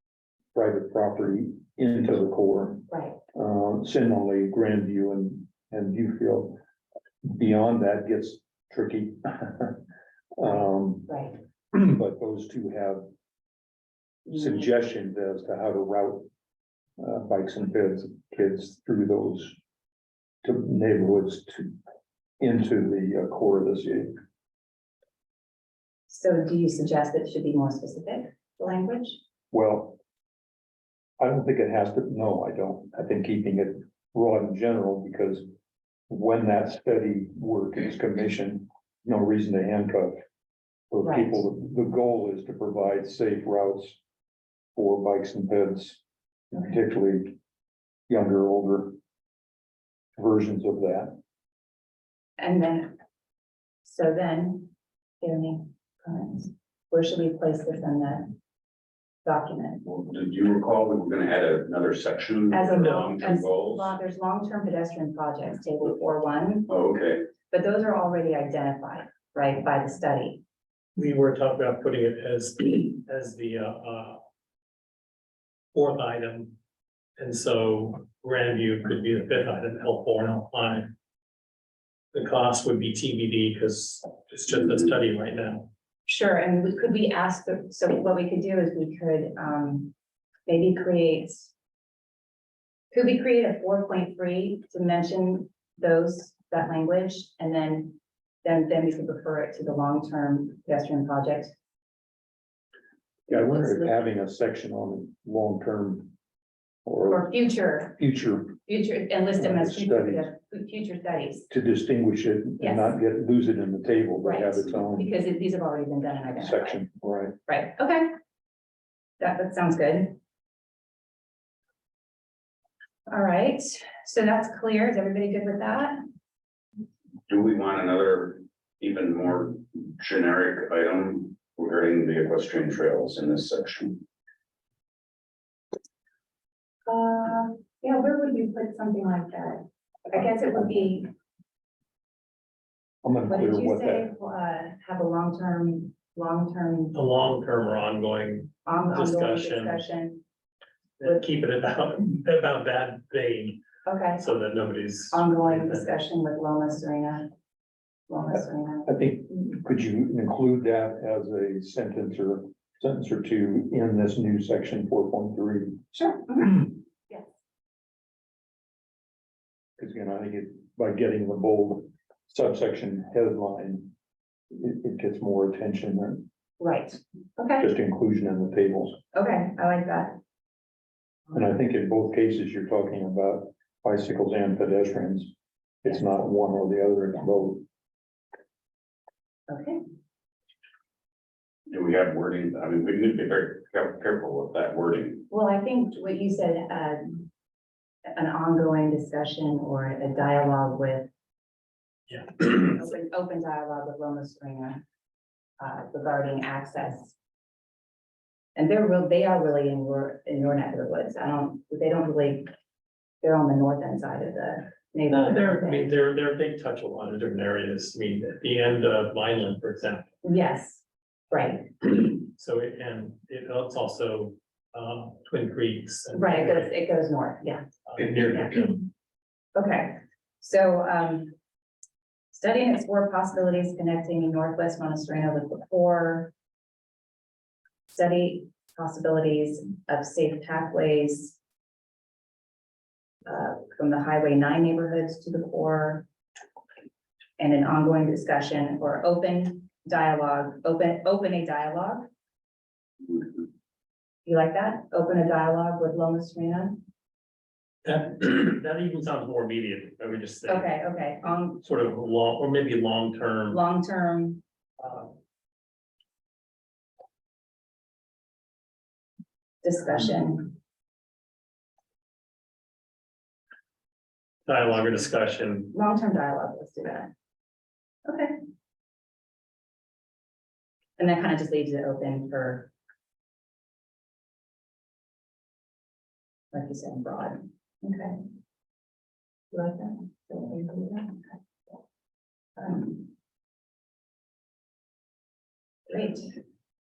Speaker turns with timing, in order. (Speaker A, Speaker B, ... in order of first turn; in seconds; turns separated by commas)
Speaker A: 0.5-6.6, Speaker B: 2.9-3.2, Speaker A: 7.2-9.8, Speaker A: 10.4-13.1, Speaker B: 11.1-11.3, Speaker A: 14.3-16.3, Speaker A: 17.0-19.6, Speaker A: 20.4-21.7, Speaker A: 22.4-24.1, Speaker B: 26.1-29.2, Speaker A: 29.5-30.0, Speaker A: 31.2-35.5, Speaker A: 36.1-40.2, Speaker A: 40.9-44.0, Speaker B: 41.0-41.4, Speaker A: 44.8-47.4, Speaker A: 48.1-49.0, Speaker A: 50.2-51.1, Speaker B: 52.4-53.0, Speaker B: 53.8-58.3, Speaker B: 59.2-59.8, Speaker C: 59.8-64.0, Speaker B: 62.5-66.7, Speaker C: 66.7-67.2, Speaker B: 67.5-70.4, Speaker D: 71.0-74.2, Speaker D: 75.7-76.5, Speaker D: 77.2-80.9, Speaker D: 82.1-85.7, Speaker B: 86.1-89.9, Speaker B: 90.5-91.5, Speaker B: 92.9-101.5, Speaker B: 103.3-104.0, Speaker A: 103.3-106.1, Speaker A: 106.8-107.3, Speaker B: 107.1-108.0, Speaker A: 107.9-108.6, Speaker B: 108.6-111.5, Speaker A: 109.3-110.3, Speaker A: 111.5-115.1, Speaker B: 112.6-112.9, Speaker B: 114.2-116.8, Speaker A: 116.3-117.4, Speaker B: 117.5-118.1, Speaker B: 119.2-120.2, Speaker B: 123.1-126.0, Speaker C: 127.3-134.0, Speaker B: 136.8-141.1, Speaker A: 143.0-144.1, Speaker B: 143.3-146.9, Speaker D: 146.9-149.8, Speaker B: 148.7-150.2, Speaker D: 151.0-153.6, Speaker B: 153.8-154.3, Speaker D: 154.2-155.8, Speaker B: 155.1-157.3, Speaker B: 158.1-158.9, Speaker A: 158.8-165.8, Speaker B: 165.9-167.2, Speaker A: 169.8-173.9, Speaker A: 174.5-176.2, Speaker B: 176.6-177.7, Speaker A: 177.6-179.0, Speaker B: 179.1-180.2, Speaker A: 181.3-187.6, Speaker B: 189.5-189.8, Speaker C: 191.7-195.3, Speaker B: 195.3-197.3, Speaker B: 198.1-201.1, Speaker D: 202.1-202.6, Speaker B: 202.6-204.8, Speaker B: 205.6-207.1, Speaker B: 208.6-212.5, Speaker B: 213.2-215.9, Speaker D: 215.1-220.0, Speaker B: 220.2-221.9, Speaker D: 222.1-226.7, Speaker B: 226.1-227.7, Speaker D: 227.9-228.8, Speaker B: 229.5-231.3, Speaker B: 232.3-236.3, Speaker B: 237.9-241.3, Speaker B: 243.2-246.0, Speaker B: 247.4-252.1, Speaker B: 254.2-256.8, Speaker D: 257.8-260.7, Speaker B: 260.4-261.6, Speaker D: 261.6-263.6, Speaker B: 263.5-264.4, Speaker D: 264.8-265.1, Speaker B: 269.6-270.5, Speaker D: 274.4-275.7, Speaker B: 275.7-277.1, Speaker B: 278.1-278.4, Speaker B: 281.0-282.7, Speaker B: 286.5-288.2, Speaker B: 289.5-291.3, Speaker B: 292.6-293.1, Speaker B: 295.9-296.3